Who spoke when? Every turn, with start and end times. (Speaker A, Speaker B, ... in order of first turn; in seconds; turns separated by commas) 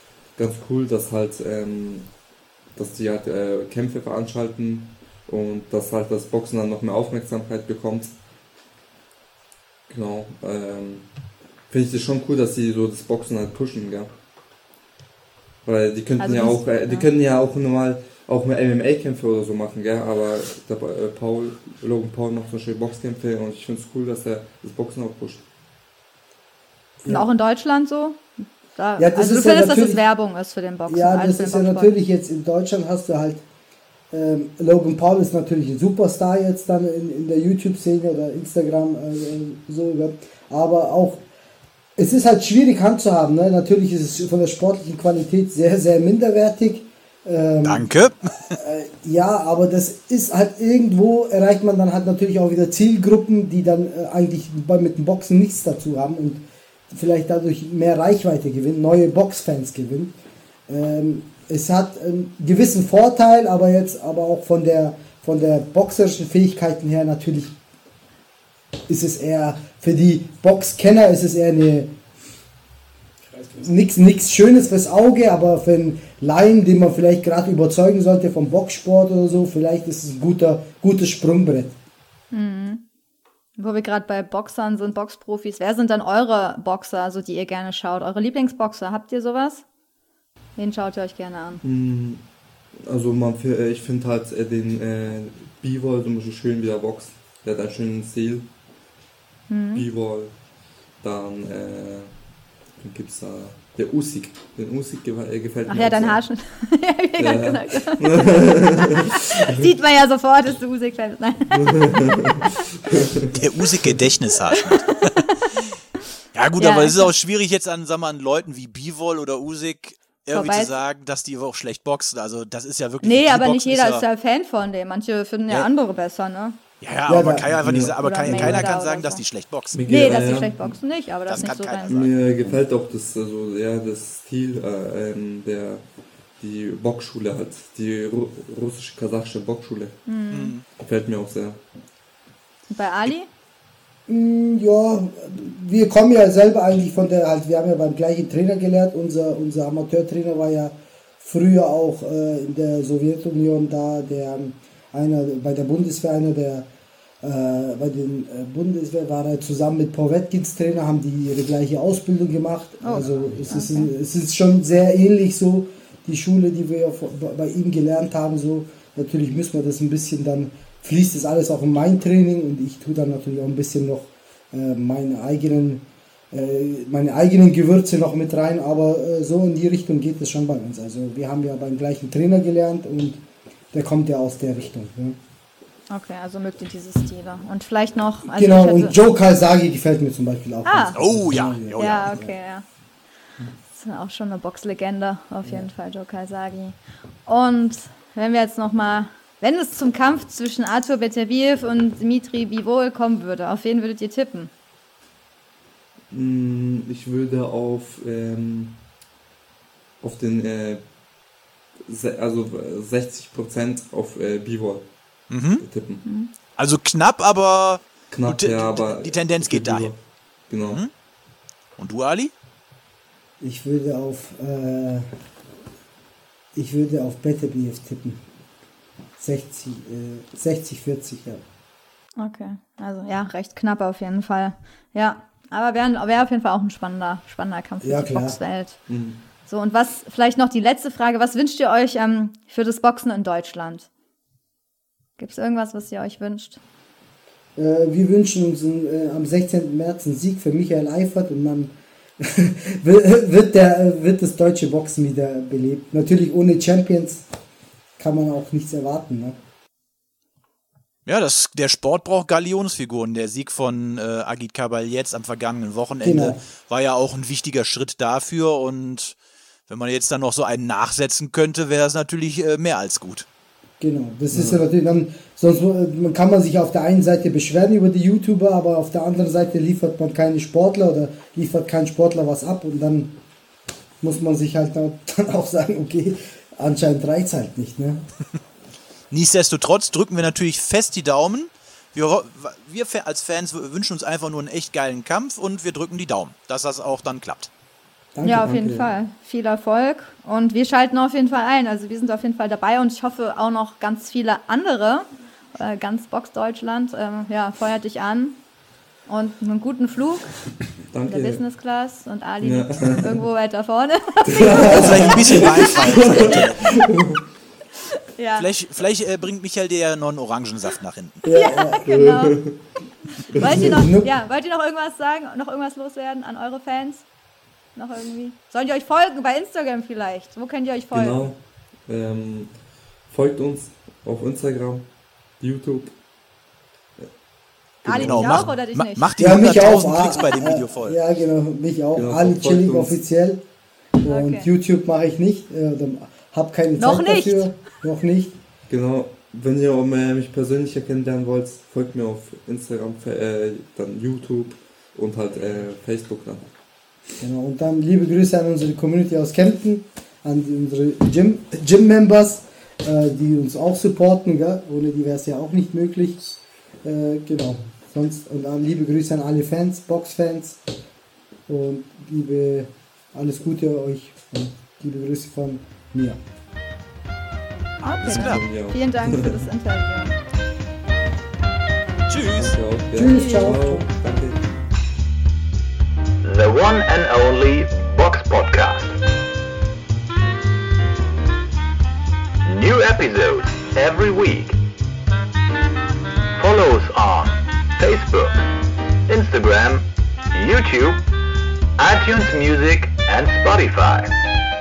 Speaker A: 0.4-2.1, Speaker A: 2.8-8.1, Speaker A: 9.9-11.1, Speaker A: 11.7-14.1, Speaker A: 15.7-25.4, Speaker B: 16.2-17.1, Speaker C: 27.0-27.3, Speaker B: 27.1-31.9, Speaker C: 29.0-30.0, Speaker C: 30.9-33.5, Speaker C: 34.1-41.2, Speaker C: 42.0-47.9, Speaker D: 47.6-48.6, Speaker C: 48.5-60.1, Speaker C: 60.7-67.6, Speaker C: 68.9-71.9, Speaker C: 73.4-81.8, Speaker B: 82.3-82.8, Speaker B: 83.6-89.6, Speaker B: 90.6-91.6, Speaker A: 91.6-92.3, Speaker A: 92.8-98.5, Speaker B: 99.5-99.8, Speaker A: 99.7-100.3, Speaker A: 101.0-102.1, Speaker A: 102.8-106.2, Speaker B: 105.7-112.0, Speaker A: 107.2-109.7, Speaker A: 111.5-113.9, Speaker D: 113.3-115.2, Speaker B: 114.5-115.7, Speaker D: 116.3-124.0, Speaker B: 116.6-117.1, Speaker B: 120.3-120.8, Speaker B: 123.0-126.6, Speaker D: 126.8-129.8, Speaker C: 127.1-127.6, Speaker A: 127.6-128.6, Speaker B: 128.0-129.2, Speaker A: 129.7-130.8, Speaker B: 129.9-132.1, Speaker D: 131.3-132.1, Speaker A: 131.9-135.8, Speaker A: 136.4-140.0, Speaker B: 140.1-140.5, Speaker D: 140.3-140.6, Speaker A: 140.8-141.6, Speaker B: 142.7-143.3, Speaker C: 144.1-156.7, Speaker C: 157.2-185.2, Speaker B: 162.8-163.9, Speaker B: 185.9-189.0, Speaker C: 188.3-192.3, Speaker B: 190.7-191.0, Speaker D: 190.9-192.1, Speaker B: 191.8-192.7, Speaker B: 193.7-204.5, Speaker C: 195.4-195.7, Speaker A: 206.1-208.8, Speaker A: 210.0-210.9, Speaker A: 211.9-214.9, Speaker D: 215.3-215.6, Speaker A: 215.6-216.0, Speaker B: 216.1-216.3, Speaker D: 216.6-219.9, Speaker A: 218.1-220.0, Speaker A: 220.5-220.8, Speaker D: 220.6-220.9, Speaker D: 221.8-222.3, Speaker C: 223.4-225.1, Speaker C: 226.5-228.2, Speaker C: 229.2-231.4, Speaker B: 232.2-238.8, Speaker C: 237.8-238.4, Speaker A: 238.9-239.2, Speaker B: 239.4-243.9, Speaker B: 245.2-246.6, Speaker C: 247.6-257.2, Speaker C: 258.0-259.4, Speaker D: 261.1-269.2, Speaker C: 266.0-266.4, Speaker D: 269.7-273.3, Speaker C: 273.8-283.2, Speaker C: 284.0-288.0, Speaker D: 289.1-297.5, Speaker C: 298.1-298.9, Speaker B: 298.2-308.4, Speaker B: 309.1-310.3, Speaker A: 310.9-311.4, Speaker B: 311.1-315.8, Speaker A: 312.4-313.1, Speaker A: 314.2-317.2, Speaker C: 314.6-314.9, Speaker D: 314.6-316.8, Speaker B: 318.1-318.5, Speaker D: 318.4-321.2, Speaker C: 321.2-321.9, Speaker B: 321.3-322.4, Speaker A: 321.9-322.6, Speaker B: 323.2-327.1, Speaker A: 323.3-323.8, Speaker C: 323.4-324.1, Speaker B: 327.8-331.3, Speaker A: 330.9-335.9, Speaker B: 337.8-339.1, Speaker D: 337.9-341.0, Speaker A: 337.9-338.5, Speaker C: 339.2-343.4, Speaker A: 341.9-343.0, Speaker C: 344.0-348.4, Speaker B: 344.1-344.5, Speaker B: 346.8-347.5, Speaker A: 348.7-356.5, Speaker C: 357.2-370.6, Speaker C: 371.5-376.2, Speaker B: 377.8-380.1, Speaker D: 378.0-378.4, Speaker A: 378.1-379.4, Speaker D: 382.1-382.6, Speaker A: 382.4-384.4, Speaker C: 382.9-383.9, Speaker B: 383.1-383.5, Speaker E: 386.2-389.0, Speaker E: 392.4-394.6, Speaker E: 396.4-398.5, Speaker E: 399.1-401.1, Speaker E: 401.8-404.2